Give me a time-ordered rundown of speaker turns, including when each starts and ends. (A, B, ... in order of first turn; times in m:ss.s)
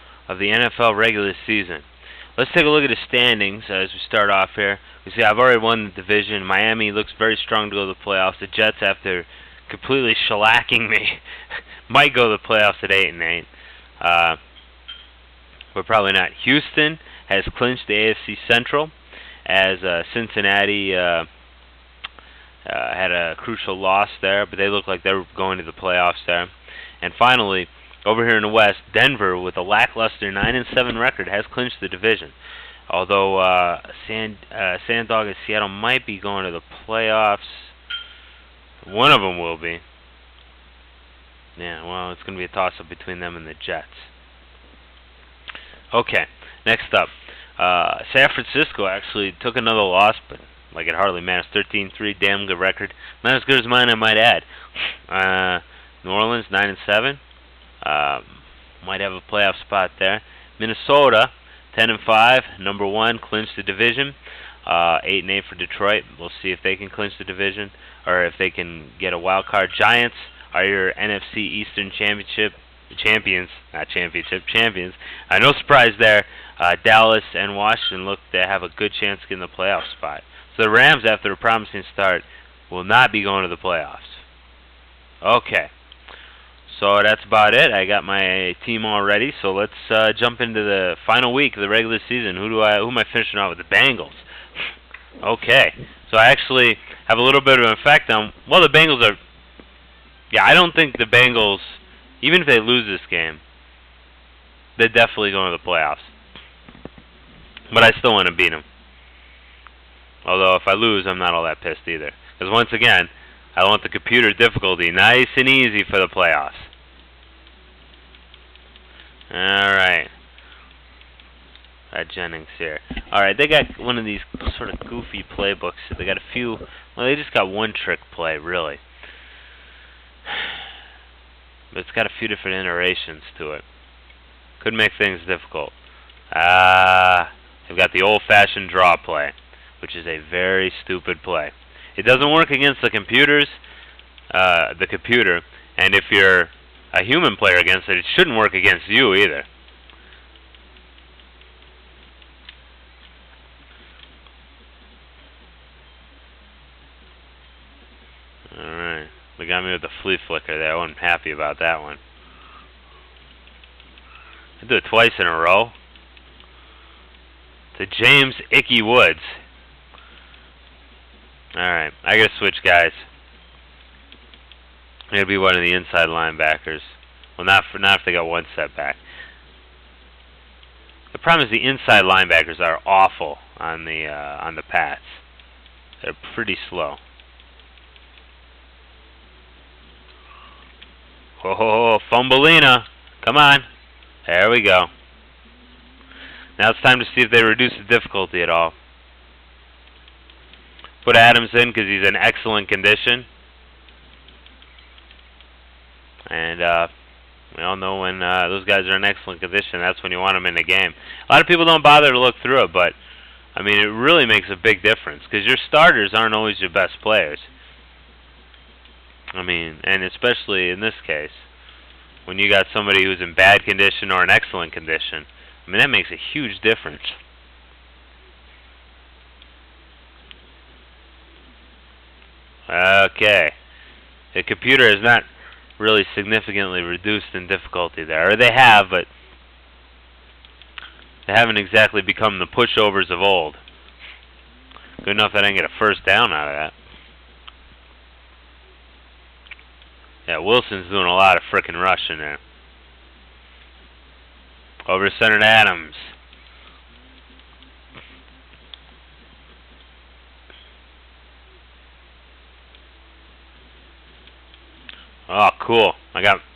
0:00.3-0:13.5 A
0:14.0-0:14.4 A
0:15.7-0:18.9 A
0:19.4-0:21.3 A
0:22.6-0:32.4 A
0:32.9-0:37.8 A
0:38.8-0:39.8 A
0:41.6-0:44.1 A
0:45.9-0:57.2 A
0:57.8-1:24.2 A
1:25.2-1:25.7 A
1:26.7-1:34.2 A
1:35.2-1:39.2 A
1:40.3-1:43.4 A
1:44.8-1:46.1 A
1:47.7-1:48.6 A
1:50.2-1:56.7 A
1:59.3-2:00.1 A
2:01.9-2:08.8 A
2:10.3-2:10.6 A
2:11.7-2:13.6 A
2:14.6-2:15.8 A
2:16.3-2:23.6 A
2:24.3-2:29.5 A
2:38.5-2:42.0 A
2:44.6-2:45.7 A
2:47.7-2:49.4 A
2:51.5-2:53.0 A
2:55.1-2:59.0 A
3:01.1-3:05.2 A
3:06.0-3:07.0 A
3:11.4-3:13.7 A
3:14.2-3:14.9 A
3:16.6-3:18.7 A
3:21.0-3:23.3 A
3:26.3-3:26.9 A
3:27.5-3:33.0 A
3:33.6-3:37.5 A
3:39.3-3:41.5 A
3:42.2-3:47.2 A
3:52.7-3:53.5 A
3:54.3-3:55.3 A
3:55.8-3:59.1 A
4:01.2-4:03.6 A
4:05.0-4:06.7 A
4:10.3-4:12.4 A
4:14.9-4:16.1 A
4:25.3-4:26.4 A